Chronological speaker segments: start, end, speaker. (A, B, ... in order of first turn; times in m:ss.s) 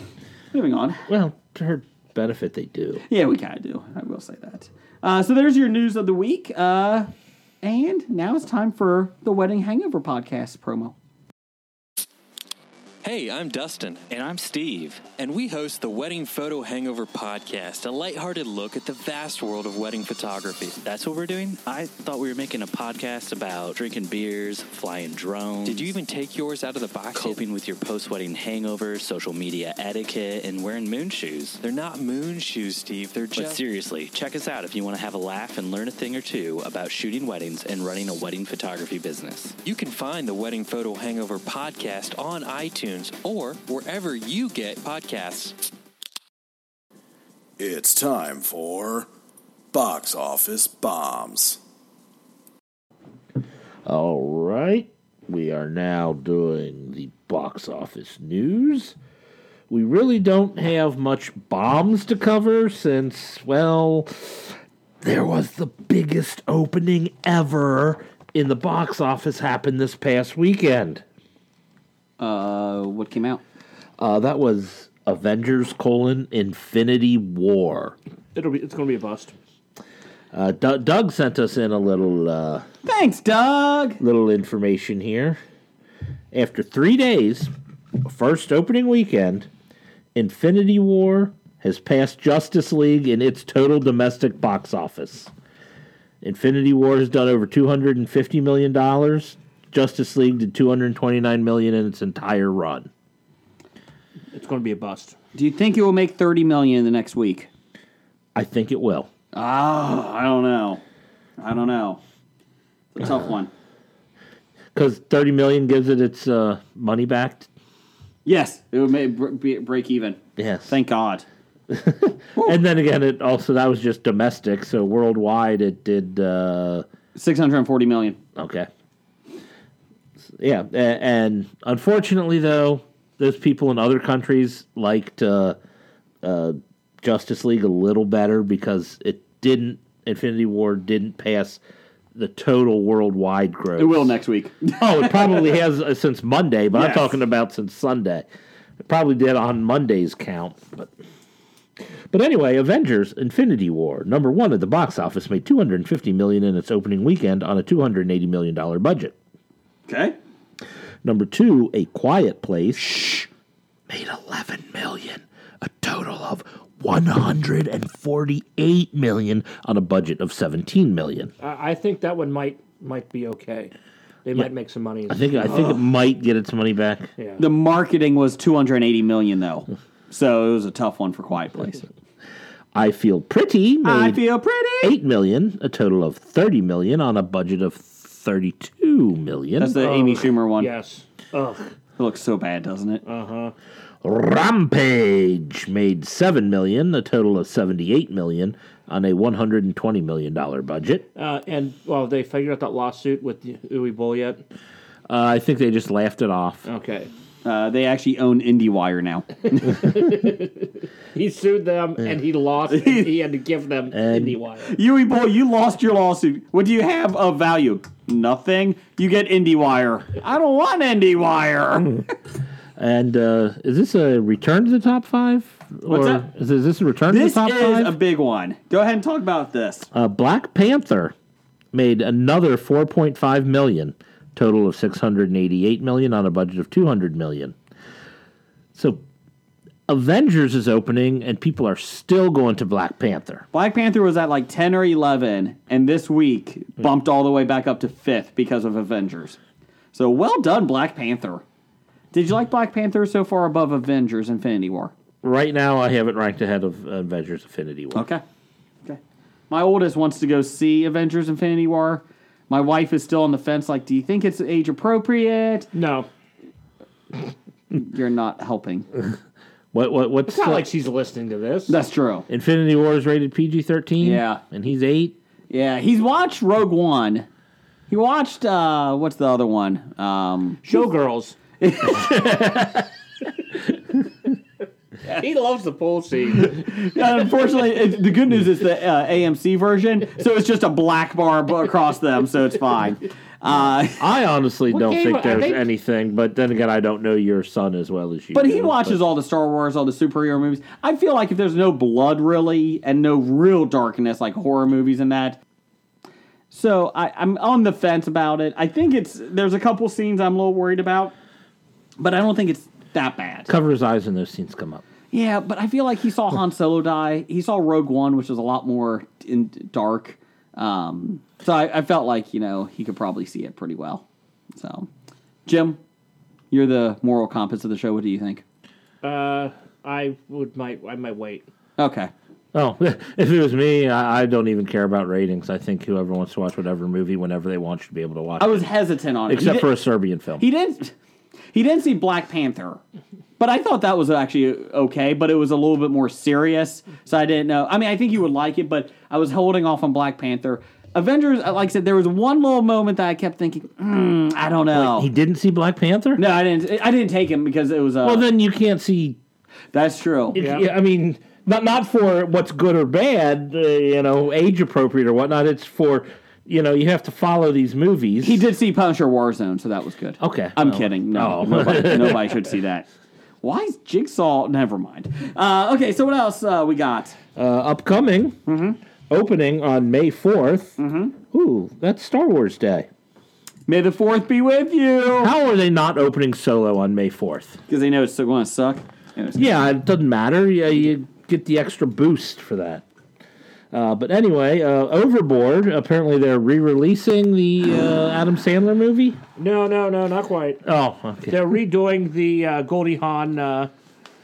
0:00.5-0:01.0 A
0:01.1-0:03.0 B
0:03.1-0:07.1 A
0:07.6-0:10.9 A
0:13.0-0:45.6 C
0:47.6-0:49.1 D
0:49.7-0:51.6 D
0:53.8-0:58.9 B
0:59.7-1:11.0 B
1:12.2-1:13.4 A
1:14.0-1:18.0 B
1:18.3-1:19.3 E
1:20.3-1:22.6 B
1:22.8-1:24.0 A
1:24.0-1:25.4 B
1:26.3-1:27.5 B
1:28.0-1:29.5 B
1:30.1-1:35.3 B
1:36.2-1:42.9 B
1:44.3-1:45.1 E
1:45.3-1:47.5 A
1:48.3-1:49.1 B
1:49.3-1:50.8 A
1:51.4-1:52.0 A
1:52.9-1:53.5 A
1:54.7-1:57.5 B
1:58.2-2:01.2 A
2:00.4-2:00.7 B
2:01.7-2:06.8 B
2:07.2-2:08.2 A
2:08.4-2:08.7 B
2:10.4-2:15.6 B
2:16.2-2:21.6 B
2:22.1-2:24.1 B
2:23.8-2:25.6 A
2:24.8-2:28.2 B
2:26.7-2:27.1 A
2:28.8-2:30.9 B
2:32.1-2:39.1 B
2:39.9-2:40.2 A
2:41.0-2:43.2 B
2:43.9-2:51.3 B
2:51.4-2:53.7 E
2:54.2-2:55.8 E
2:55.1-2:57.1 B
2:57.2-2:57.4 E
2:57.4-3:01.8 A
3:02.7-3:04.2 B
3:03.8-3:04.9 A
3:04.8-3:09.8 B
3:09.6-3:10.7 A
3:09.8-3:11.6 E
3:12.0-3:13.0 A
3:13.0-3:13.5 E
3:14.0-3:21.0 B
3:21.1-3:24.4 E
3:25.1-3:26.6 B
3:26.6-3:27.1 E
3:27.4-3:29.8 A
3:29.6-3:34.8 E
3:32.7-3:33.1 A
3:33.9-3:34.4 B
3:34.7-3:42.0 A
3:42.8-3:48.0 B
3:45.9-3:46.2 A
3:47.1-3:49.9 A
3:49.9-3:51.1 B
3:51.7-3:57.5 B
3:58.7-3:59.0 B
3:59.9-4:03.4 B
4:03.5-4:09.4 A
4:09.9-4:11.4 A
4:12.1-4:14.9 A
4:15.2-4:18.0 B
4:17.9-4:18.2 A
4:19.5-4:25.7 A
4:25.7-4:26.1 E
4:27.8-4:28.9 A
4:29.7-4:30.7 B
4:30.3-4:31.8 E
4:31.7-4:32.2 A
4:32.3-4:35.2 B
4:34.0-4:34.4 A
4:35.5-4:37.3 A
4:37.9-4:40.7 A
4:40.6-4:41.4 E
4:41.6-4:42.3 A
4:41.9-4:42.8 E
4:45.0-4:46.7 E
4:46.3-4:54.0 A
4:54.0-4:59.0 B
4:54.7-4:55.6 E
4:58.3-5:05.4 A
5:06.5-5:11.1 A
5:12.0-5:13.5 A
5:13.5-5:14.8 B
5:15.1-5:24.0 A
5:24.6-5:24.9 A
5:25.4-5:25.8 A
5:26.5-5:28.4 A
5:29.0-5:31.4 E
5:31.8-5:32.1 A
5:32.5-5:38.7 B
5:38.4-5:39.7 A
5:39.3-5:40.4 B
5:40.4-5:40.9 A
5:41.5-5:42.8 A
5:43.4-5:55.1 A
5:54.7-5:56.2 B
5:56.2-5:58.3 A
5:58.0-5:59.2 B
5:59.7-6:00.4 A
6:00.3-6:00.7 E
6:00.3-6:08.4 B
6:08.2-6:12.8 A
6:10.2-6:12.3 B
6:13.4-6:17.2 A
6:17.4-6:18.4 B
6:18.4-6:18.8 A
6:19.1-6:22.9 B
6:20.8-6:21.1 A
6:23.7-6:25.3 A
6:25.2-6:27.6 B
6:27.7-6:29.6 A
6:29.3-6:32.8 B
6:33.7-6:39.2 B
6:39.4-6:40.6 E
6:40.6-6:41.4 B
6:41.3-6:43.7 E